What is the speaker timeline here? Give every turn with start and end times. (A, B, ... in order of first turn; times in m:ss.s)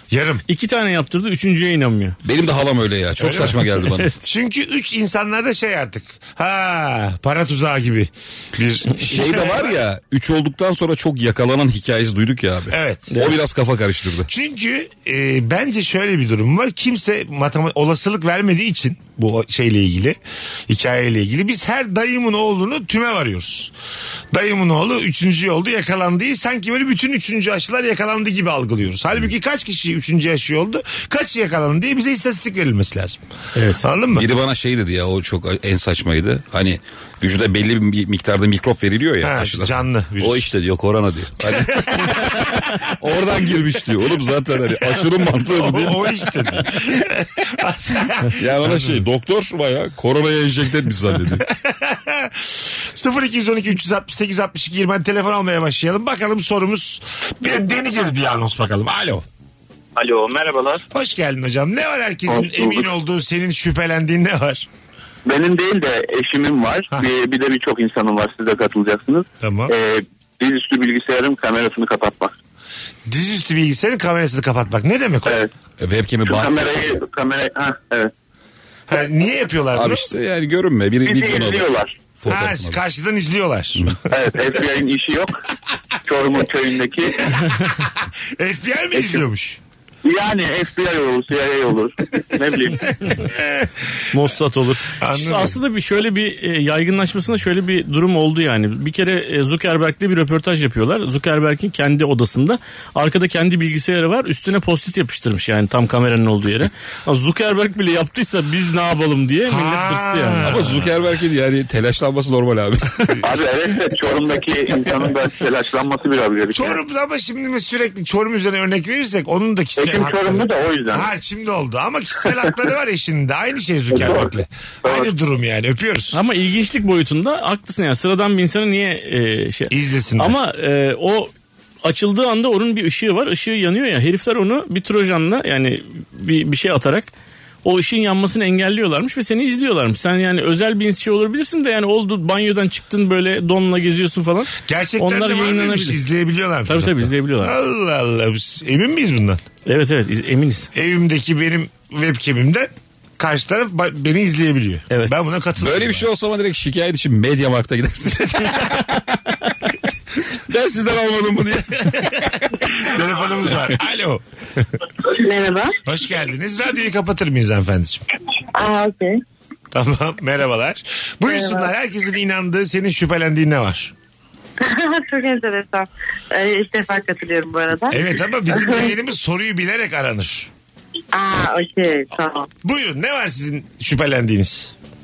0:00.1-0:00.4 A
0:00.5-0:02.2 B
0:02.2-0:04.1 C
0:03.2-0:09.8 A
0:09.1-0:14.3 C
0:12.7-0:13.2 A
0:14.3-0:20.2 A
0:20.7-0:23.7 A
0:24.3-0:33.2 A
0:33.6-0:33.8 B
0:33.8-0:34.3 A
0:34.2-0:46.3 C
0:39.2-0:40.5 A
0:41.4-0:42.5 A
0:45.4-0:49.0 A
0:48.4-0:51.5 C
0:51.4-0:59.2 A
1:00.0-1:00.8 D
1:00.9-1:04.7 A
1:02.3-1:02.9 D
1:05.3-1:12.3 D
1:09.4-1:09.7 A
1:13.1-1:15.4 A
1:15.2-1:15.5 D
1:15.8-1:17.0 C
1:16.3-1:18.1 D
1:18.9-1:20.1 A
1:19.7-1:22.8 C
1:21.0-1:21.9 D
1:22.3-1:23.9 A
1:24.1-1:25.4 D
1:26.0-1:27.3 D
1:27.3-1:29.6 A
1:28.9-1:29.2 D
1:30.0-1:32.9 D
1:33.3-1:33.7 A
1:34.1-1:50.5 B
1:35.0-1:35.6 A
1:49.5-1:51.0 A
1:50.4-1:53.2 C
1:53.2-1:56.8 D
1:56.5-2:06.2 A
1:59.8-2:01.1 D
2:03.9-2:04.3 D
2:04.8-2:05.1 D
2:06.1-2:11.3 B
2:09.7-2:10.4 A
2:11.8-2:17.1 B
2:17.6-2:26.0 B
2:24.7-2:29.4 A
2:26.7-2:27.6 B
2:29.7-2:30.7 B
2:30.7-2:36.1 A
2:34.9-2:35.2 B
2:35.6-2:39.2 C
2:38.3-2:38.7 A
2:40.3-2:42.5 C
2:41.8-2:44.7 A
2:45.0-2:45.8 E
2:45.9-2:48.0 A
2:48.5-2:49.2 E
2:49.7-2:53.9 A
2:51.3-2:51.7 E
2:54.6-2:58.9 E
2:57.9-3:00.5 A
3:01.1-3:02.5 E
3:02.6-3:04.8 A